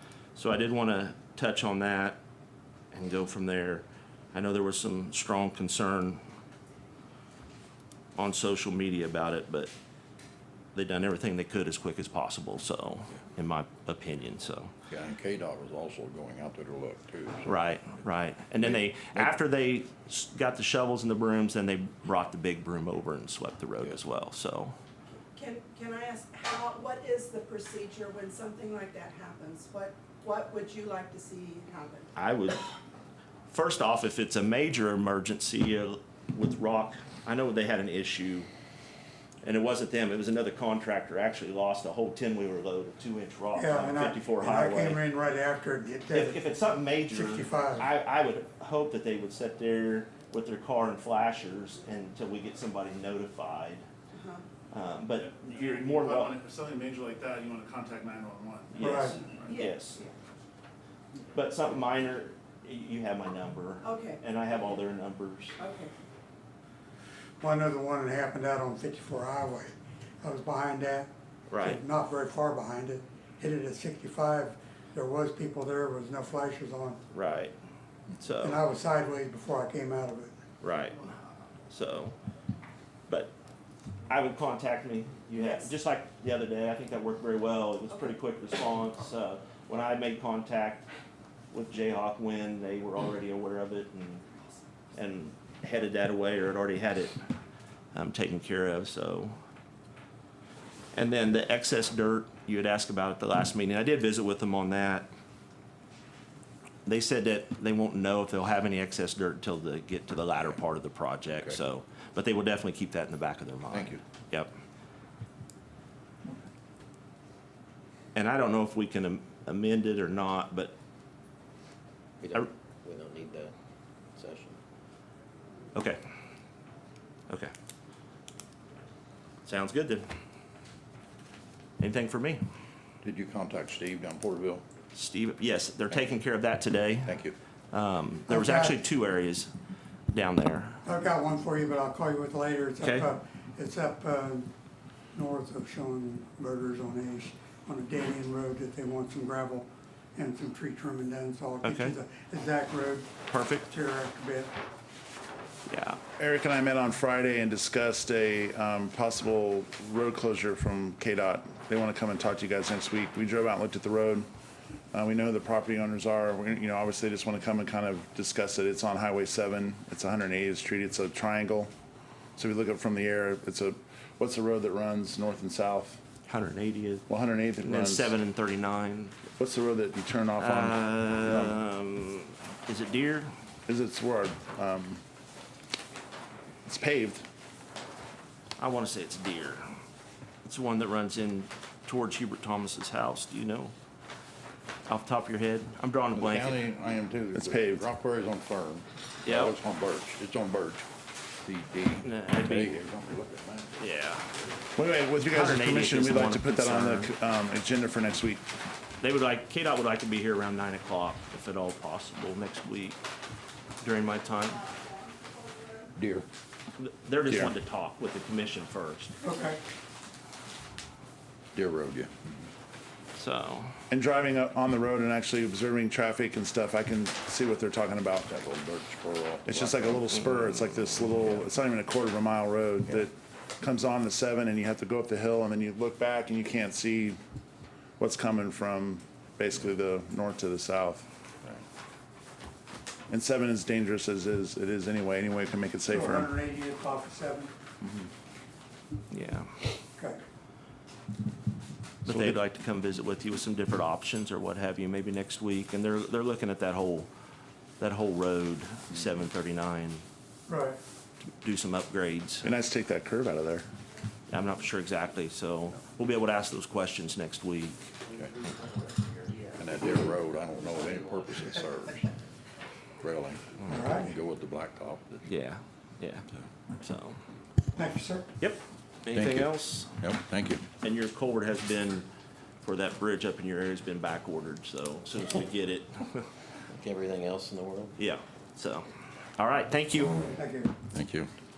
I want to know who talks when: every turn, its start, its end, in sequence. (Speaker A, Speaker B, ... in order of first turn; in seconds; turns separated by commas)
Speaker A: 0.3-2.2, Speaker A: 2.9-6.2, Speaker A: 8.2-9.7, Speaker A: 10.7-14.7, Speaker B: 14.9-17.5, Speaker A: 17.4-24.7, Speaker C: 25.3-32.1, Speaker A: 32.1-32.6, Speaker A: 33.5-38.5, Speaker A: 39.4-45.0, Speaker D: 43.5-46.5, Speaker A: 46.1-53.9, Speaker D: 47.1-47.9, Speaker C: 54.1-54.4, Speaker A: 54.7-56.4, Speaker E: 55.2-59.5, Speaker A: 58.7-60.0, Speaker D: 58.8-59.2, Speaker C: 59.5-60.1, Speaker A: 61.3-65.6, Speaker C: 63.8-64.2, Speaker C: 65.6-65.9, Speaker D: 67.4-77.0, Speaker A: 71.5-71.8, Speaker A: 77.1-77.5, Speaker A: 78.2-78.6, Speaker D: 78.4-80.3, Speaker A: 80.6-81.1, Speaker A: 81.7-82.1, Speaker A: 84.1-90.9, Speaker A: 91.5-94.2, Speaker A: 94.9-97.2, Speaker A: 97.9-99.4, Speaker A: 100.9-105.1, Speaker A: 106.8-114.5, Speaker B: 113.7-114.0, Speaker A: 118.1-120.7, Speaker F: 122.2-123.5, Speaker F: 124.1-124.6, Speaker A: 125.7-126.0, Speaker A: 129.4-130.1, Speaker A: 131.8-132.4, Speaker B: 133.0-134.6, Speaker A: 134.9-139.5, Speaker B: 137.1-137.3, Speaker D: 138.3-138.7, Speaker A: 140.1-140.8, Speaker D: 140.8-144.5, Speaker A: 142.8-143.1, Speaker D: 145.1-153.1, Speaker A: 151.6-151.9, Speaker A: 153.3-153.7, Speaker D: 153.6-154.5, Speaker A: 155.7-156.0, Speaker E: 156.2-164.2, Speaker E: 164.9-171.7, Speaker E: 172.4-176.0, Speaker A: 176.3-177.1, Speaker E: 177.1-178.1, Speaker A: 177.6-179.2, Speaker E: 179.4-181.6, Speaker A: 180.4-183.3, Speaker E: 183.7-185.0, Speaker E: 186.7-187.2, Speaker A: 188.6-189.8, Speaker A: 190.4-193.7, Speaker A: 194.9-196.6, Speaker B: 196.1-200.9, Speaker E: 197.3-197.8, Speaker A: 199.2-199.5, Speaker B: 201.4-203.8, Speaker A: 202.0-202.8, Speaker A: 203.8-204.3, Speaker E: 204.8-208.4, Speaker A: 205.2-207.1, Speaker A: 209.0-213.0, Speaker A: 213.8-214.6, Speaker B: 215.9-216.2, Speaker A: 216.8-219.1, Speaker E: 217.2-217.5, Speaker D: 219.2-219.6, Speaker B: 221.5-222.3, Speaker A: 223.2-223.7, Speaker E: 223.9-228.3, Speaker B: 228.3-230.3, Speaker E: 229.4-237.2, Speaker E: 238.0-241.1, Speaker E: 243.1-246.3, Speaker D: 245.9-247.5, Speaker A: 249.1-249.6, Speaker A: 252.0-257.1, Speaker E: 252.1-252.4, Speaker A: 257.8-260.0, Speaker D: 260.5-260.8, Speaker A: 261.4-262.5, Speaker E: 262.4-263.7, Speaker A: 264.3-267.9, Speaker B: 269.6-272.1, Speaker B: 273.0-275.2, Speaker D: 273.7-274.1, Speaker A: 275.2-277.2, Speaker D: 277.8-278.3, Speaker A: 278.4-280.0, Speaker B: 279.1-280.6, Speaker A: 280.8-282.1, Speaker A: 282.6-286.3, Speaker F: 286.7-287.9, Speaker A: 288.0-290.2, Speaker D: 290.3-290.7, Speaker B: 290.9-291.3